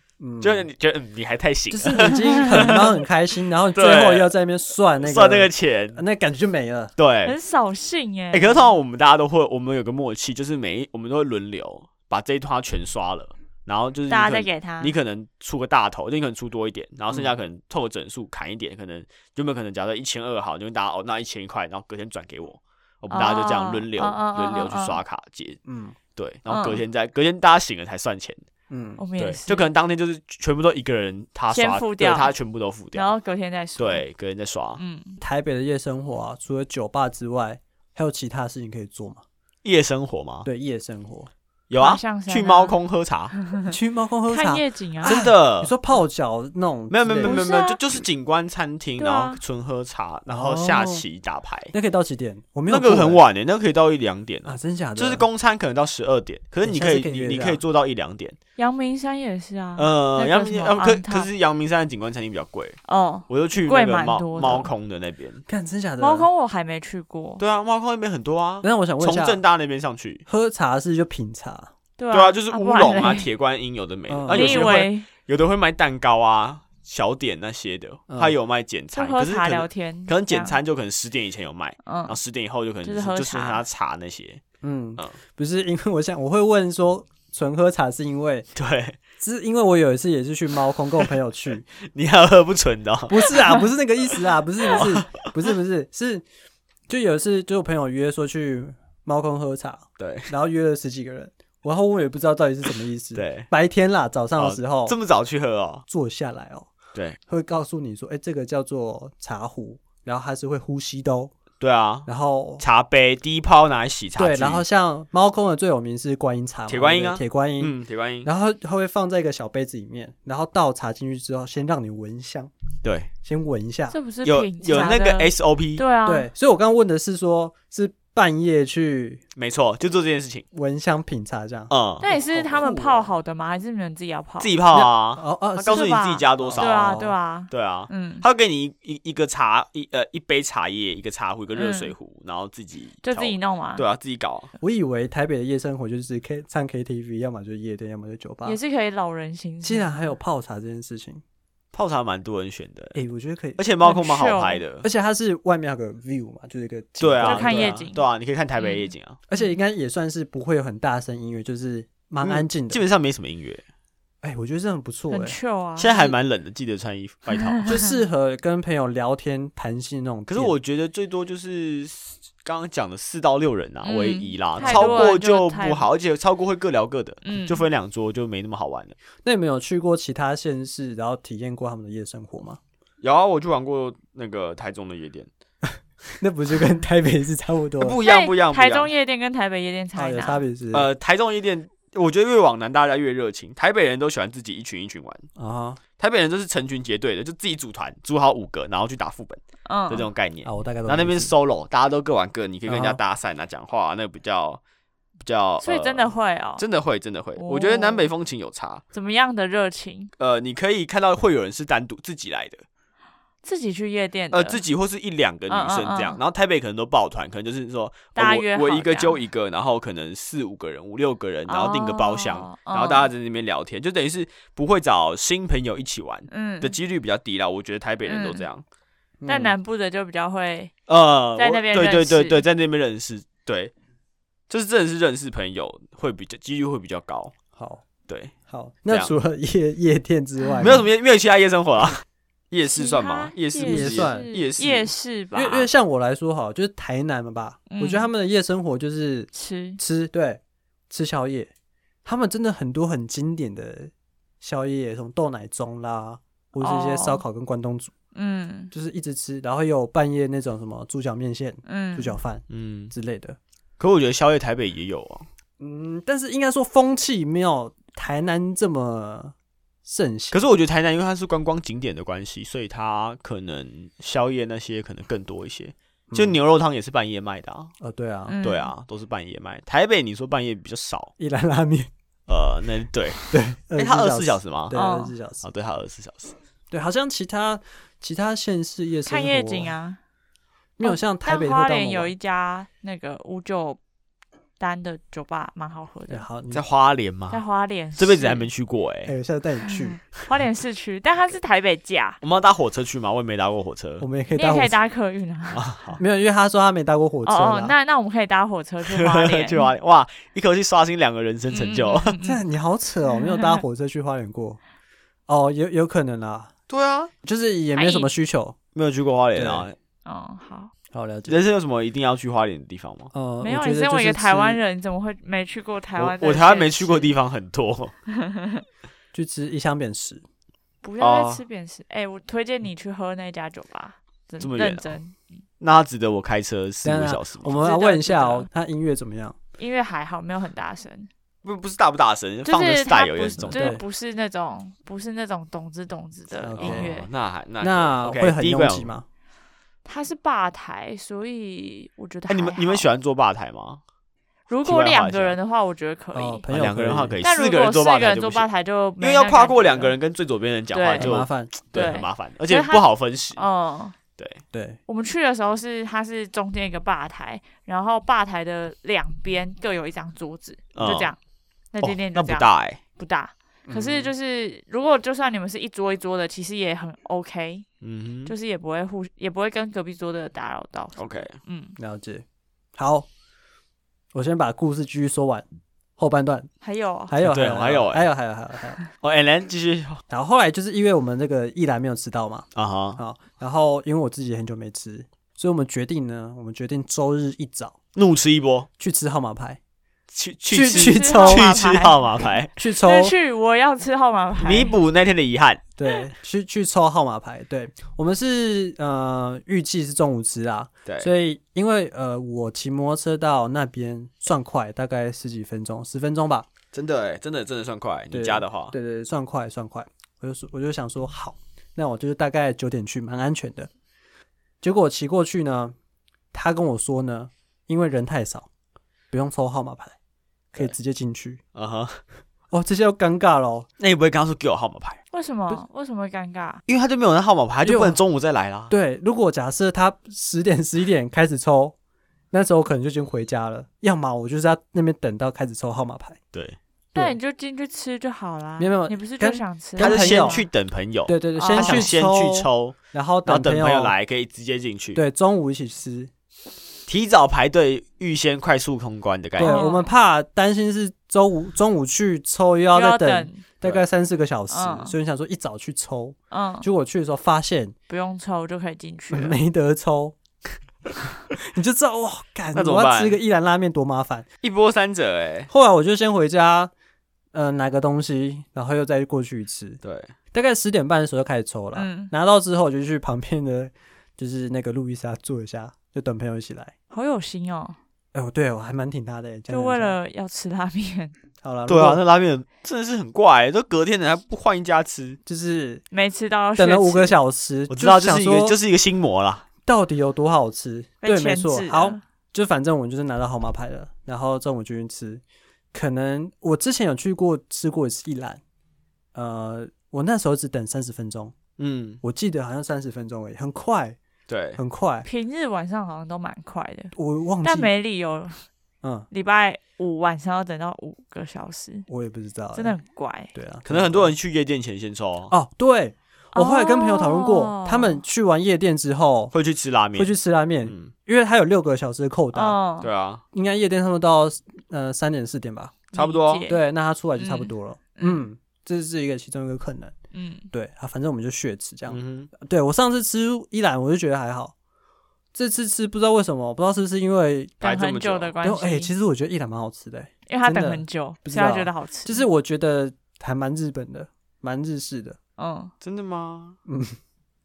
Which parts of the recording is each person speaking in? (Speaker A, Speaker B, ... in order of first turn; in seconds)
Speaker A: 0.2-0.7, 1.7-6.9, 25.7-26.0, 28.7-29.0, 35.2-39.2, 40.5-41.3, 43.7-47.4, 50.3-51.0, 51.7-53.2, 54.5-55.2, 56.6-57.6, 65.5-66.3, 68.6-69.4, 70.3-71.7, 74.1-74.8, 78.1-78.3, 84.6-88.5, 89.2-91.7, 93.1-96.2, 96.9-105.0, 105.9-106.7, 107.3-111.3, 112.1-112.6, 114.2-122.5, 123.2-124.0, 126.0-129.2, 130.5-132.7, 134.7-137.2, 144.6-148.6, 149.6-151.2, 152.9-153.6, 154.8-157.8, 159.3-162.8, 164.2-165.4, 167.7-170.5, 174.6-175.1, 179.2-182.6, 186.1-188.0, 190.0-190.9, 195.4-195.8, 200.4-201.3, 202.7-203.0, 229.2-229.6, 237.5-237.8, 238.5-240.9, 243.6-244.3, 245.3-251.5, 252.1-257.9, 258.7-263.4, 265.6-270.4, 276.1-276.4, 277.8-278.4, 281.2-281.9, 283.3-285.4, 286.7-289.7, 290.8-292.1, 296.1-296.6, 299.1-300.0, 304.0-304.8, 306.0-307.8, 312.2-314.6, 315.3-316.5, 317.2-318.6, 319.4-319.7, 320.9-321.4, 323.1-324.6, 329.1-330.2, 336.8-339.4, 343.4-343.8, 346.4-346.9, 347.6-349.1, 356.1-357.2, 361.0-361.9, 364.5-364.8, 373.7-374.1, 381.8-382.2, 382.8-383.1, 384.1-385.4, 386.0-386.5, 387.1-388.8, 390.1-397.8, 398.8-399.6, 400.5-401.6, 402.6-403.1, 405.8-416.5, 418.1-423.7, 424.6-425.8, 426.3-428.5, 429.1-430.0, 430.5-431.4, 432.5-433.7, 437.6-438.0, 438.7-441.8, 442.3-446.2, 448.6-450.4, 451.1-453.9, 454.9-456.1, 459.4-467.8, 469.1-470.2, 471.3-474.3, 475.5-476.7, 477.3-479.8, 480.3-486.7, 488.1-490.0, 491.4-492.0, 495.3-495.8, 496.6-498.6, 499.6-508.4, 509.1-511.4, 512.0-514.0, 514.6-515.1, 516.9-517.7, 518.8-519.1, 521.9-522.8, 523.3-524.1, 525.3-529.3, 530.0-532.6, 533.3-535.9, 536.5-539.9, 540.5-544.5, 545.3-547.6, 548.4-555.2, 556.7-557.0
Speaker B: 0.4-3.0, 3.8-4.3, 5.0-6.0, 7.0-7.4, 8.3-25.6, 26.2-28.4, 29.2-33.1, 33.8-34.8, 39.6-40.5, 41.7-43.4, 45.0-45.7, 46.9-51.7, 52.7-58.4, 59.8-62.8, 63.3-65.4, 67.4-70.2, 72.1-84.4, 88.6-89.0, 91.8-93.5, 94.7-95.3, 100.0-100.3, 103.2-103.5, 104.4-105.8, 111.6-112.1, 112.6-114.6, 116.7-118.3, 122.8-123.1, 124.2-125.8, 129.4-130.5, 131.7-133.1, 134.4-144.5, 151.7-153.0, 153.6-154.9, 157.0-159.2, 162.2-163.6, 165.8-167.8, 170.3-179.0, 183.0-185.3, 187.8-188.9, 190.7-195.3, 196.0-204.6, 205.2-208.8, 210.2-212.6, 214.3-228.6, 230.9-233.7, 234.5-237.3, 238.1-238.3, 240.6-244.9, 262.5-262.9, 263.8-265.3, 270.3-277.7, 278.4-281.1, 282.3-284.8, 285.4-286.4, 296.5-297.4, 298.0-299.1, 302.2-304.1, 305.5-306.0, 308.8-312.2, 316.7-317.1, 318.8-319.8, 321.3-323.1, 326.0-327.9, 331.0-331.4, 334.4-334.9, 335.6-337.6, 341.4-343.8, 346.6-348.9, 352.3-353.8, 354.6-355.4, 356.5-358.5, 359.0-363.5, 370.8-371.1, 371.8-372.8, 377.8-378.3, 381.0-381.4, 387.2-388.1, 389.0-390.0, 392.6-393.0, 397.9-398.7, 400.1-402.5, 404.4-405.6, 416.7-418.7, 431.5-432.0, 433.8-435.0, 436.7-438.7, 449.8-455.0, 456.9-459.6, 472.5-473.2, 474.4-475.5, 479.8-480.1, 491.7-495.2, 497.7-499.5, 511.6-512.0, 514.3-514.6, 523.7-525.3, 529.3-530.9, 532.8-533.2, 535.9-536.5, 541.9-542.3, 547.6-548.3, 555.8-556.6
Speaker C: 7.2-8.7, 14.1-14.9, 23.1-25.0, 26.5-26.8, 29.0-29.7, 31.5-32.3, 32.9-34.0, 34.8-35.2, 41.8-42.8, 44.3-45.2, 47.2-47.8, 49.0-49.4, 58.6-61.3, 62.9-64.7, 66.0-67.4, 72.0-73.3, 74.3-75.1, 79.0-80.6, 81.8-82.2, 82.8-83.6, 123.9-126.3, 132.0-134.5, 135.7-138.2, 141.6-141.9, 143.0-143.8, 148.4-150.2, 153.8-154.6, 157.2-158.0, 158.6-159.5, 165.1-166.2, 167.6-168.0, 173.8-175.9, 177.2-177.6, 188.0-190.4, 199.7-200.1, 205.6-206.7, 207.4-208.1, 208.9-210.1, 213.4-214.6, 215.5-216.2, 218.2-219.2, 221.5-223.1, 226.3-226.8, 228.1-228.5, 229.3-230.7, 231.4-232.4, 242.7-245.7, 247.7-248.1, 249.3-249.8, 256.6-257.2, 258.1-258.7, 261.7-262.1, 278.3-278.7, 284.7-285.1, 289.1-290.0, 290.8-293.8, 294.6-296.2, 297.3-298.5, 299.7-302.2, 304.4-305.7, 307.2-309.7, 311.5-312.4, 313.3-313.6, 317.8-318.1, 320.1-320.7, 323.4-327.1, 328.1-328.6, 330.8-335.4, 337.5-338.5, 339.6-341.1, 342.4-347.1, 349.9-352.9, 354.5-356.4, 357.2-360.0, 360.7-361.1, 361.7-364.0, 364.9-371.2, 371.7-377.7, 378.3-381.8, 386.6-387.1, 400.7-402.0, 402.8-404.8, 435.1-436.6, 446.9-450.5, 451.4-451.9, 459.4-459.9, 462.7-463.4, 464.5-464.9, 466.3-466.7, 467.9-469.4, 481.8-482.1, 486.9-487.8, 489.5-491.1, 495.9-497.2, 501.0-502.0, 515.0-518.5, 519.1-521.9, 522.5-523.3, 526.4-528.0, 532.3-532.9, 535.9-536.6, 537.2-538.3, 540.1-540.5, 547.6-548.9, 550.3-552.2, 555.4-555.7